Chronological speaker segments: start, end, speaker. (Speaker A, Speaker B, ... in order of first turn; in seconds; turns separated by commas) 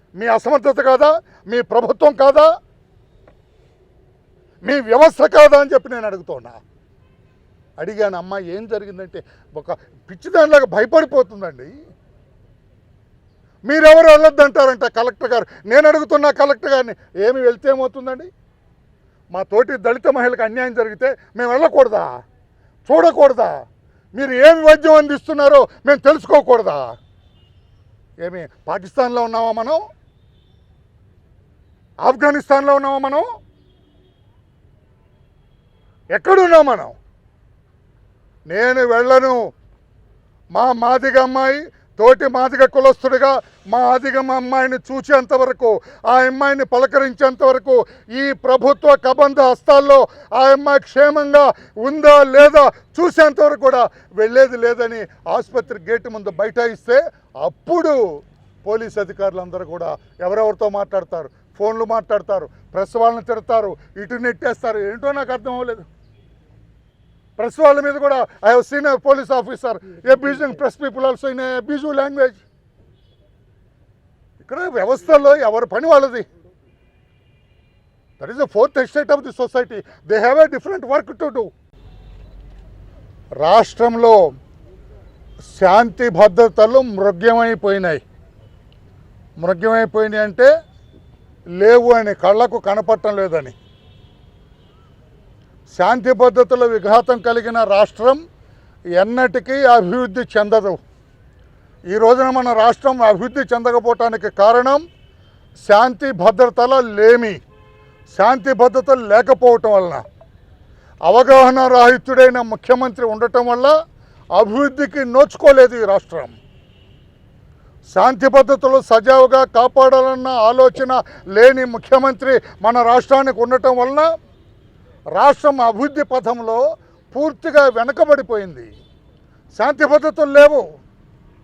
Speaker A: 0.2-2.5, Speaker A: 4.6-6.6, Speaker A: 7.8-11.7, Speaker A: 13.7-18.3, Speaker A: 19.3-22.1, Speaker A: 22.9-23.5, Speaker A: 24.1-26.9, Speaker A: 28.2-29.8, Speaker A: 32.0-33.2, Speaker A: 36.1-36.9, Speaker A: 38.5-39.4, Speaker A: 40.5-58.0, Speaker A: 58.6-65.8, Speaker A: 67.4-72.4, Speaker A: 74.4-76.2, Speaker A: 78.2-81.5, Speaker A: 83.4-84.2, Speaker A: 85.6-88.0, Speaker A: 89.4-90.5, Speaker A: 91.6-93.5, Speaker A: 95.7-98.2, Speaker A: 99.0-100.8, Speaker A: 101.9-104.8, Speaker A: 105.6-107.4, Speaker A: 108.1-110.0, Speaker A: 111.1-113.7, Speaker A: 114.3-116.4, Speaker A: 117.9-124.1, Speaker A: 125.2-128.7, Speaker A: 129.6-130.6